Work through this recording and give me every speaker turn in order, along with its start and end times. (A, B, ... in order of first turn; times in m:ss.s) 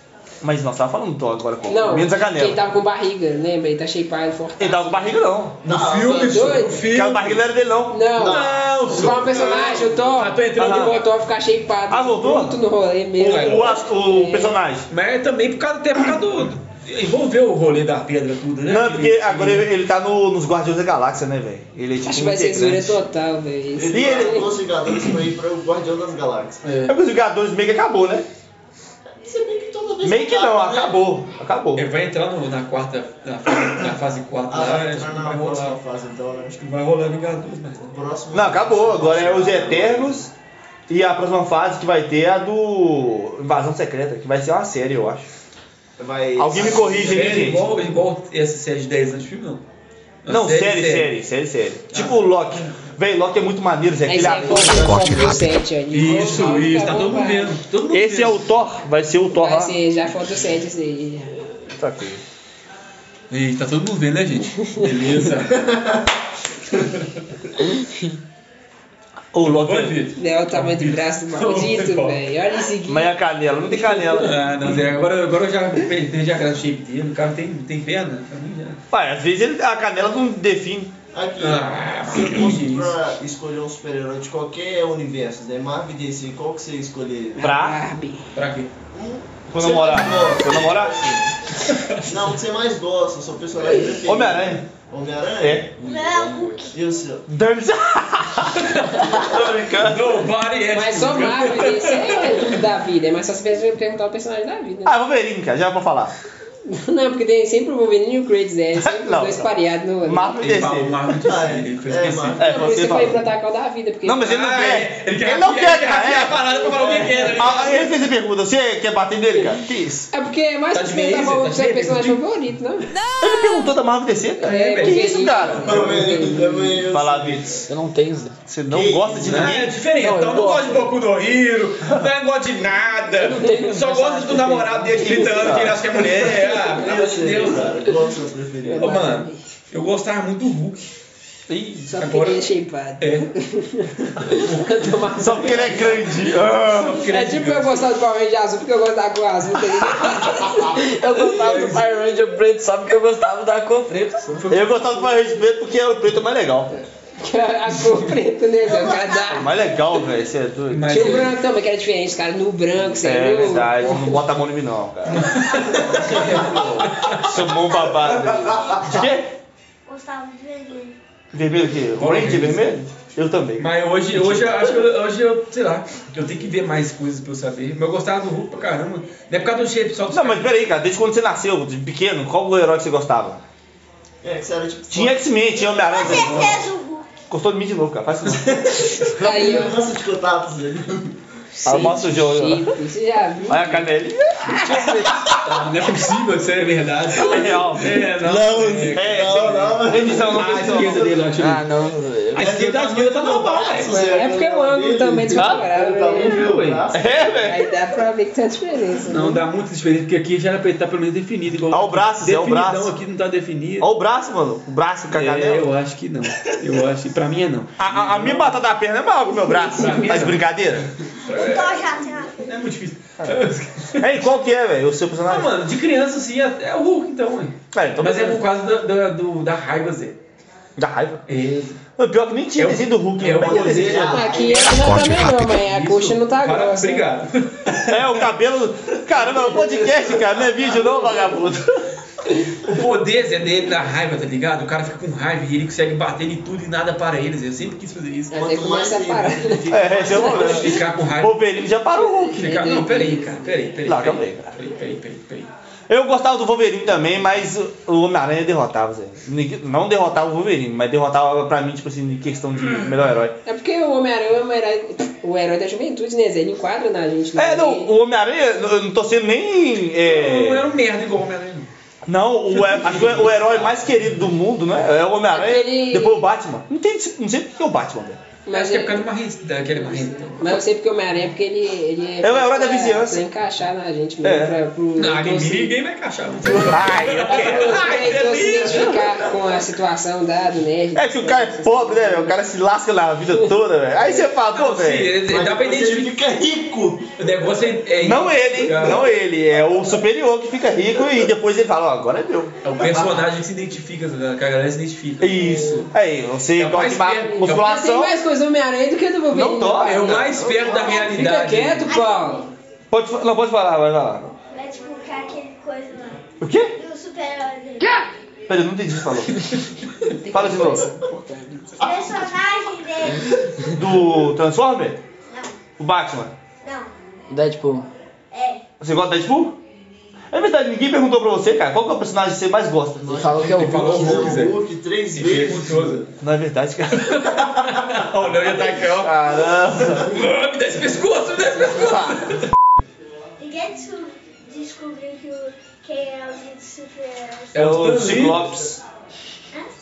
0:00.4-0:02.6 A
0:01.7-0:05.2 B
0:04.6-0:05.6 A
0:05.6-0:07.4 C
0:05.6-0:06.5 D
0:06.1-0:06.8 B
0:06.8-0:08.0 A
0:07.9-0:14.6 B
0:08.2-0:09.8 D
0:08.2-0:11.0 C
0:10.6-0:11.0 A
0:11.9-0:12.6 A
0:13.2-0:14.9 A
0:13.2-0:13.7 C
0:14.9-0:19.7 C
0:18.7-0:23.0 A
0:22.1-0:24.5 B
0:23.8-0:26.6 D
0:23.9-0:24.4 A
0:26.6-0:27.0 C
0:26.9-0:28.3 A
0:29.2-0:31.0 D
0:30.0-0:31.9 A
0:31.8-0:35.8 C
0:34.5-0:36.6 D
0:36.6-0:37.9 C
0:37.8-0:40.3 D
0:38.3-0:40.3 A
0:40.9-0:45.3 A
0:46.0-0:47.5 D
0:46.4-0:47.7 A
0:46.6-0:49.6 C
0:50.2-0:51.1 C
0:50.3-0:55.0 A
0:51.9-0:52.7 C
0:54.1-0:57.6 B
0:54.6-0:55.4 C
0:55.9-0:58.4 C
0:57.9-0:59.8 A
0:59.3-1:01.4 B
1:01.8-1:02.2 A
1:03.3-1:05.7 C
1:05.5-1:06.0 D
1:09.3-1:10.0 A
1:09.4-1:12.2 C
1:10.2-1:13.1 B
1:12.9-1:14.4 A
1:13.8-1:14.1 B
1:14.2-1:18.8 C
1:18.9-1:21.0 A
1:21.1-1:27.4 D
1:21.4-1:23.0 C
1:27.4-1:28.3 B
1:27.4-1:27.8 A
1:28.3-1:28.7 C
1:28.9-1:31.4 D
1:29.5-1:31.0 A
1:31.7-1:32.0 C
1:32.0-1:35.9 D
1:34.0-1:34.7 A
1:35.4-1:35.7 A
1:35.8-1:36.8 E
1:36.0-1:36.6 F
1:36.7-1:37.2 D
1:37.3-1:40.2 A
1:38.6-1:39.2 C
1:39.8-1:42.6 C
1:40.7-1:45.0 B
1:44.8-1:46.1 A
1:46.7-1:50.4 B
1:48.8-1:49.5 A
1:50.0-1:51.2 A
1:50.4-1:52.4 C
1:51.2-1:52.9 D
1:52.4-1:53.2 A
1:52.4-1:54.4 B
1:54.0-2:00.1 A
1:54.2-1:57.9 C
2:00.1-2:02.9 B
2:00.7-2:02.2 C
2:03.2-2:05.8 A
2:04.4-2:06.7 B
2:04.4-2:05.9 C
2:05.6-2:07.7 D
2:06.9-2:07.6 A
2:07.7-2:08.4 F
2:08.5-2:09.8 A
2:08.7-2:09.6 D
2:09.2-2:17.9 C
2:09.9-2:10.9 F
2:13.2-2:15.6 F
2:15.0-2:15.9 A
2:16.5-2:19.1 D
2:18.7-2:19.4 B
2:18.8-2:20.9 C
2:21.5-2:22.0 A
2:21.9-2:26.2 B
2:22.0-2:22.4 C
2:23.0-2:23.3 C
2:24.3-2:25.7 C
2:25.2-2:27.1 A
2:26.6-2:27.9 C
2:27.1-2:30.8 B
2:30.7-2:34.7 F
2:31.4-2:31.8 C
2:34.4-2:34.7 C
2:34.5-2:36.7 A
2:37.2-2:39.6 B
2:39.3-2:41.3 A
2:40.7-2:41.4 C
2:40.9-2:44.0 B
2:42.8-2:45.6 A
2:45.1-2:47.4 C
2:45.7-2:46.8 D
2:47.2-2:49.4 A
2:47.9-2:49.0 D
2:49.9-2:51.0 E
2:51.3-2:54.8 A
2:52.0-2:52.9 C
2:53.6-3:00.5 C
3:00.1-3:03.4 A
3:04.2-3:05.4 D
3:04.9-3:06.7 A
3:05.7-3:07.1 E
3:06.0-3:06.4 D
3:07.3-3:09.6 A
3:08.6-3:11.2 D
3:09.2-3:09.8 B
3:11.6-3:13.9 B
3:11.6-3:12.7 A
3:13.5-3:15.2 A
3:14.6-3:15.1 B
3:15.3-3:21.6 C
3:17.2-3:18.1 A
3:17.9-3:21.2 D
3:18.9-3:21.1 A
3:21.4-3:22.6 F
3:22.3-3:23.9 C
3:22.3-3:27.3 D
3:23.9-3:26.4 B
3:25.3-3:25.6 A
3:26.2-3:26.8 C
3:26.9-3:27.6 A
3:27.4-3:29.4 B
3:29.1-3:33.9 C
3:31.7-3:32.9 A
3:33.8-3:35.7 A
3:35.1-3:38.6 C
3:37.8-3:40.9 A
3:39.7-3:44.2 C
3:41.3-3:42.4 E
3:44.0-3:45.5 A
3:45.2-3:50.2 C
3:47.7-3:48.4 A
3:50.8-3:51.2 A
3:51.3-3:51.8 C
3:52.0-3:54.1 A
3:52.6-3:54.3 C
3:53.3-3:55.1 D
3:54.1-3:57.1 B
3:55.4-3:58.1 C
3:57.9-4:01.8 A
4:02.7-4:08.3 C
4:08.3-4:10.3 B
4:08.3-4:10.7 D
4:09.7-4:12.4 A
4:10.2-4:11.5 C
4:12.0-4:13.4 B
4:12.4-4:15.5 C
4:13.8-4:14.5 A
4:15.9-4:23.4 A
4:23.4-4:27.9 B
4:27.4-4:30.7 A
4:30.0-4:31.7 C
4:32.0-4:38.2 A
4:32.6-4:33.7 C
4:35.3-4:36.2 B
4:38.5-4:39.1 B
4:38.5-4:40.6 C
4:39.7-4:45.8 B
4:42.2-4:43.2 A
4:44.2-4:44.6 A
4:45.0-4:49.0 C
4:46.6-4:48.0 A
4:47.3-4:52.4 B
4:48.7-4:49.0 A
4:51.0-4:55.2 A
4:54.5-4:56.2 C
4:55.2-4:57.1 D
4:57.2-4:59.0 C
4:58.0-5:02.6 A
5:02.6-5:05.9 C
5:05.2-5:08.1 A
5:05.3-5:05.9 B
5:06.6-5:07.7 C
5:07.3-5:12.5 B
5:09.3-5:10.4 A
5:09.8-5:11.9 C
5:10.4-5:11.0 D
5:10.4-5:11.3 E
5:11.9-5:12.5 E
5:12.9-5:14.4 A
5:14.5-5:16.2 E
5:16.4-5:16.8 A
5:16.7-5:18.0 E
5:18.5-5:19.4 A
5:20.1-5:22.3 B
5:20.3-5:20.9 A
5:21.8-5:23.5 E
5:23.7-5:25.0 A
5:25.8-5:26.3 A
5:26.6-5:26.9 E
5:27.3-5:27.9 F
5:28.3-5:28.6 E
5:28.8-5:29.6 A
5:30.3-5:33.3 A
5:33.0-5:36.1 D
5:33.1-5:34.3 F
5:33.4-5:34.6 C
5:35.1-5:36.1 C
5:36.2-5:37.5 A
5:36.9-5:42.5 C
5:38.4-5:40.1 A
5:43.4-5:47.6 E
5:47.5-5:48.6 C
5:47.5-5:48.8 A